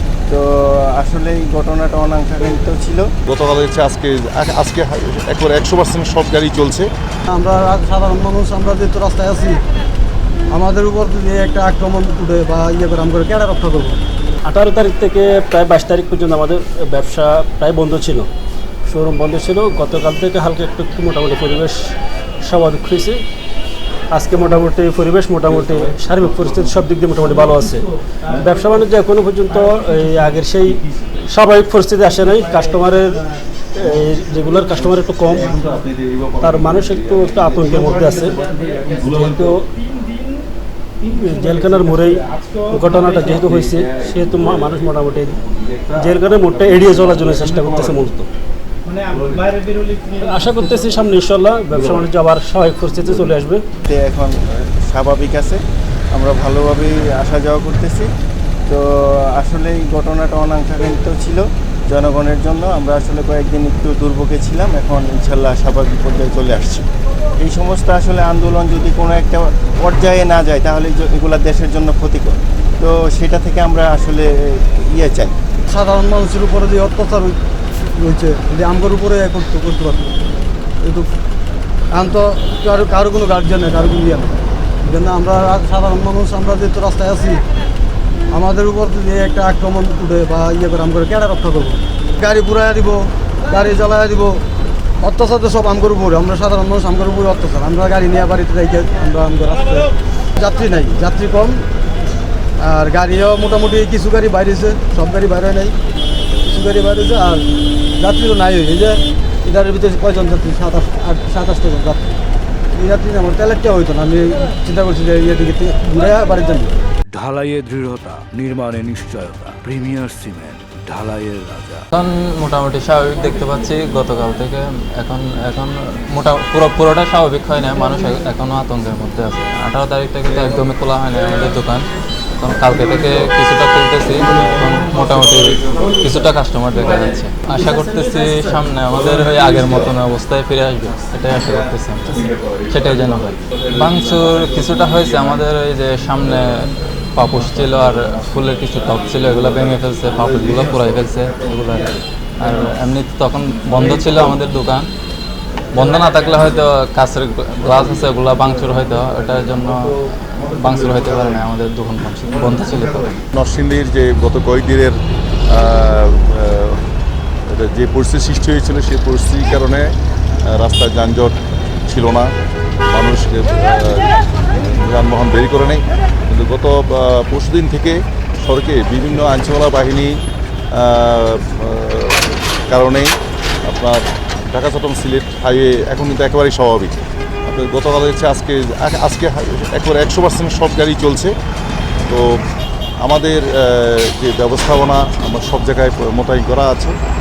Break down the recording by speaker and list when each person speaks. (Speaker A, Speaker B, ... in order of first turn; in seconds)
Speaker A: 0.3-3.1, 53.9-55.6, 56.1-58.1, 58.7-66.8, 67.4-75.3
Speaker B: 3.2-6.9, 163.3-165.0, 165.5-166.9, 167.5-169.9, 170.4-171.3, 171.9-172.3, 172.9-180.1, 180.7-183.1, 183.6-186.9, 187.4-191.3, 193.0-196.9
Speaker C: 7.3-9.6, 10.5-14.0, 75.7-77.4, 78.0-80.1, 81.9-87.4, 88.3-94.4, 95.0-101.6, 102.6-105.7, 106.4-107.4, 108.0-112.2, 112.7-116.8
Speaker D: 14.4-18.3, 18.9-21.9, 22.4-23.2, 24.1-33.2, 33.7-35.6, 36.4-38.4, 38.9-39.7, 41.1-48.3, 50.1-53.6
Speaker E: 117.1-121.9
Speaker F: 121.9-131.9, 132.4-154.9, 155.7-159.9, 160.5-163.2